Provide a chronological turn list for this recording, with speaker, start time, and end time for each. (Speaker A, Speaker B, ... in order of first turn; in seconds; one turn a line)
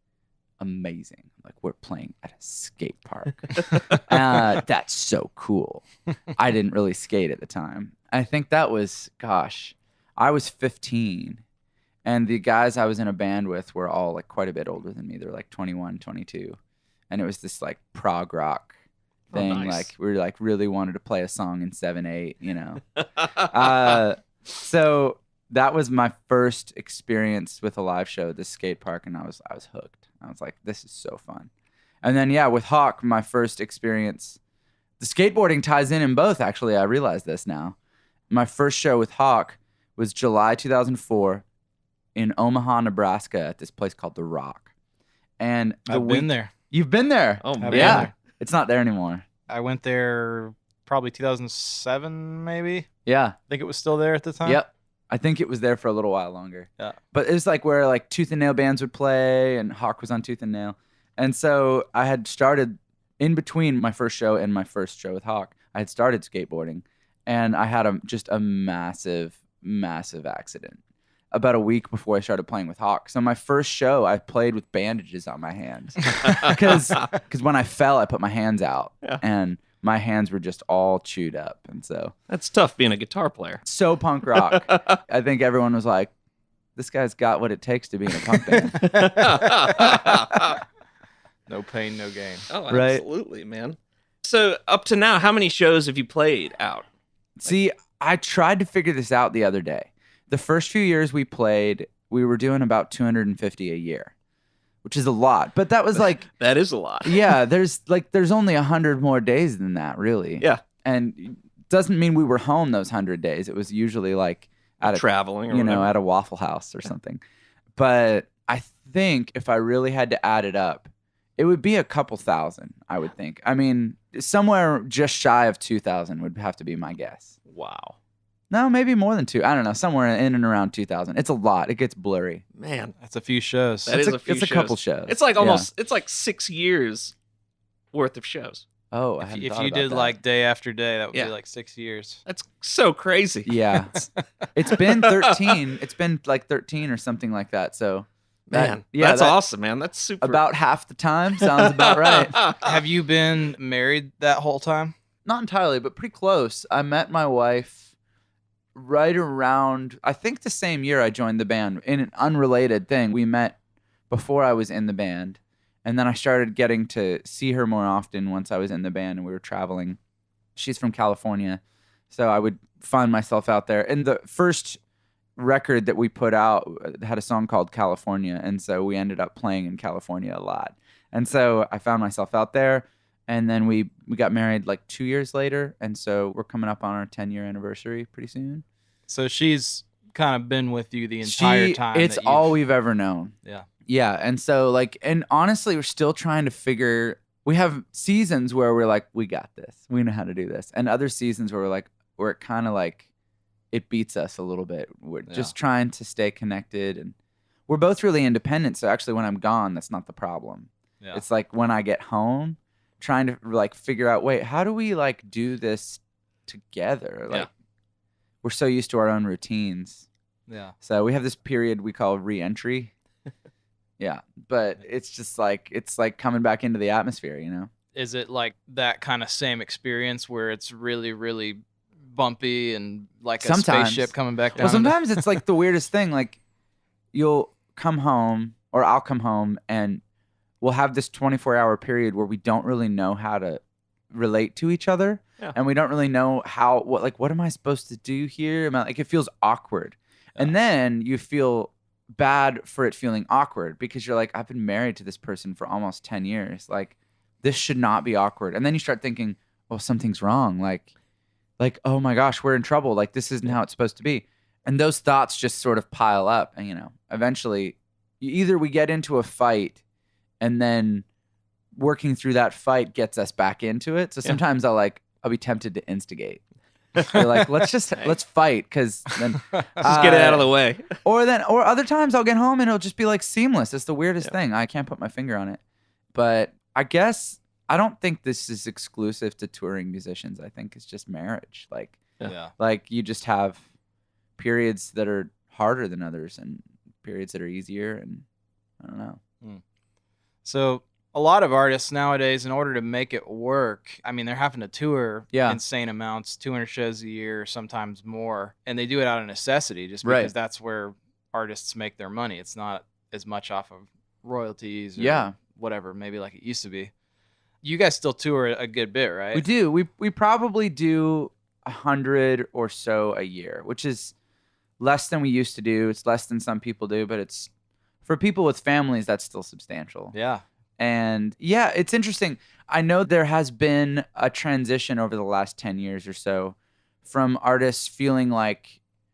Speaker A: 0.6-11.4
Speaker A: 12.0-16.6
Speaker A: 17.1-18.7
Speaker B: 19.3-19.9
Speaker A: 19.3-22.8
Speaker A: 23.4-31.5
Speaker A: 32.0-34.4
Speaker A: 35.0-37.7
Speaker A: 38.3-41.4
Speaker A: 42.1-44.7
Speaker A: 45.4-49.2
Speaker C: 45.9-46.5
Speaker B: 47.4-48.1
Speaker C: 47.6-48.1
Speaker C: 49.5-52.9
Speaker A: 53.0-53.4
Speaker C: 53.5-54.6
Speaker A: 54.4-70.8
Speaker A: 71.3-82.1
Speaker B: 76.2-77.1
Speaker B: 82.3-83.6
Speaker A: 83.6-86.1
Speaker B: 84.3-85.0
Speaker A: 86.8-90.4
Speaker B: 88.7-90.6
Speaker C: 91.5-92.4
Speaker B: 92.5-96.8
Speaker A: 92.7-93.0
Speaker A: 97.4-104.1
Speaker A: 104.8-106.3
Speaker B: 106.4-107.2
Speaker A: 107.0-117.2
Speaker B: 114.8-115.9
Speaker A: 117.8-127.3
Speaker B: 127.5-128.0
Speaker A: 128.5-132.4
Speaker B: 132.6-132.9
Speaker C: 133.0-134.0
Speaker B: 133.8-137.1
Speaker A: 133.9-135.7
Speaker B: 137.9-138.6
Speaker A: 138.9-140.2
Speaker C: 139.2-142.2
Speaker B: 142.3-143.8
Speaker A: 143.4-149.4
Speaker B: 144.9-145.6
Speaker B: 148.5-150.4
Speaker A: 150.2-152.5
Speaker B: 151.4-152.7
Speaker C: 152.6-154.9
Speaker A: 155.2-157.8
Speaker A: 158.7-163.5
Speaker A: 164.1-170.0
Speaker A: 170.6-174.8
Speaker A: 175.3-188.6
Speaker C: 189.1-192.6
Speaker A: 191.2-193.3
Speaker A: 193.8-203.0
Speaker A: 203.7-207.1
Speaker C: 205.3-205.5
Speaker A: 207.7-217.5
Speaker A: 218.4-220.1
Speaker C: 220.5-220.7
Speaker A: 220.8-222.9
Speaker A: 224.0-227.7
Speaker C: 227.9-235.2
Speaker A: 233.4-236.4
Speaker A: 237.1-240.0
Speaker A: 240.6-260.9
Speaker A: 261.6-269.8
Speaker A: 270.4-271.0
Speaker A: 271.7-276.4
Speaker A: 277.0-285.6
Speaker B: 279.8-280.9
Speaker A: 286.1-292.0
Speaker C: 292.2-292.5
Speaker A: 292.6-293.6
Speaker A: 294.4-298.2
Speaker A: 298.8-299.2
Speaker C: 300.4-316.9
Speaker A: 305.3-305.6
Speaker A: 310.0-310.3
Speaker A: 315.0-315.3
Speaker C: 317.6-319.4
Speaker A: 319.3-324.1
Speaker A: 324.8-327.5
Speaker A: 328.0-330.1
Speaker C: 330.1-330.4
Speaker A: 330.8-338.8